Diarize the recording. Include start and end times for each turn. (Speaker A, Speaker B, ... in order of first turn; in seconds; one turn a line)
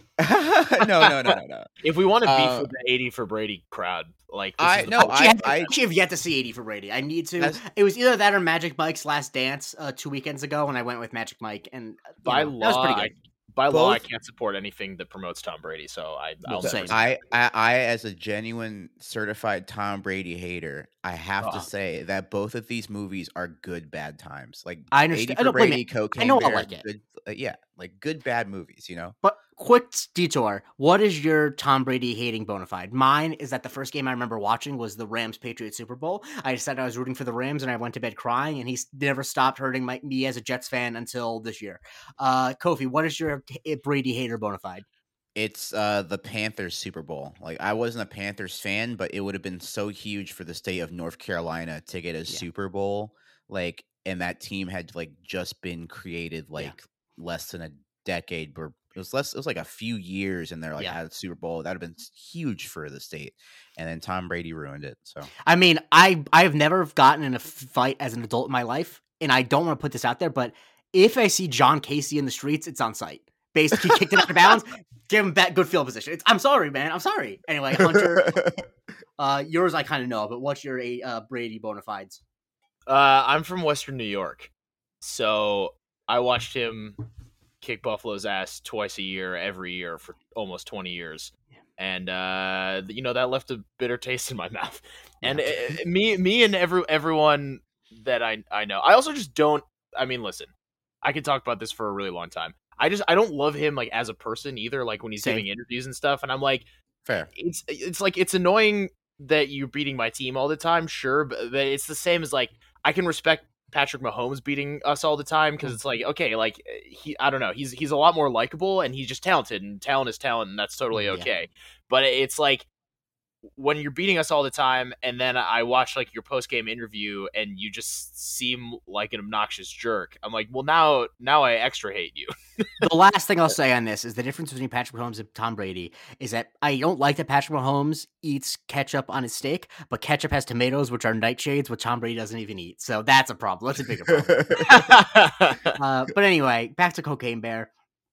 Speaker A: 0.2-1.7
Speaker B: 0.8-5.2
Speaker A: 2.2-2.7
Speaker A: 4.6-5.7
Speaker C: 5.0-13.1
Speaker B: 12.2-17.2
Speaker A: 13.7-14.0
Speaker C: 16.5-17.0
Speaker A: 16.6-29.2
Speaker C: 24.9-26.8
Speaker C: 29.2-44.9
Speaker A: 45.4-65.3
Speaker C: 65.5-78.5
Speaker A: 77.8-78.6
Speaker C: 79.2-82.2
Speaker B: 82.9-84.5
Speaker B: 85.0-87.0
Speaker B: 87.6-106.7
Speaker C: 95.2-95.8
Speaker C: 105.2-105.5
Speaker B: 107.3-122.7
Speaker C: 120.9-121.3
Speaker B: 123.5-132.8
Speaker C: 132.8-144.7
Speaker B: 144.6-145.8
Speaker C: 145.8-147.7